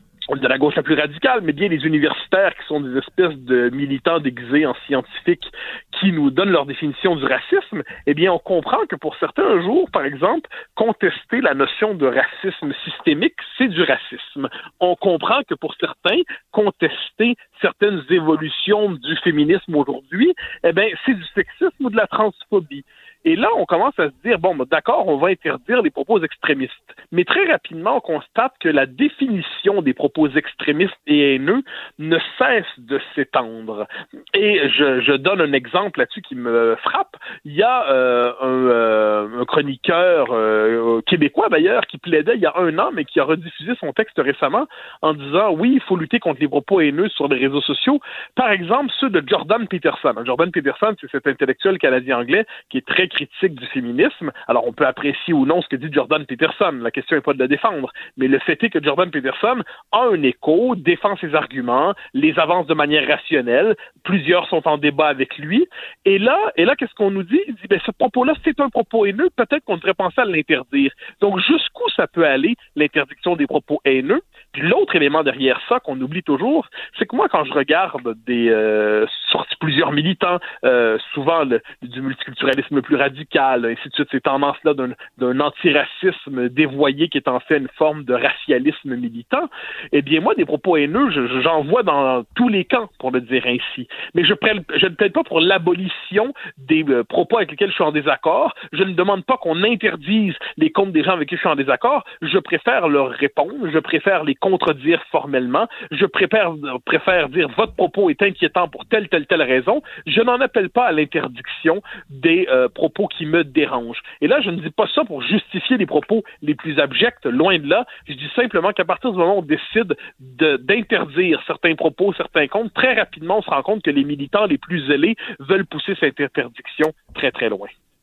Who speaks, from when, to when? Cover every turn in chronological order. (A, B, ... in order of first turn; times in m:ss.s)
0:00.3-2:07.7 A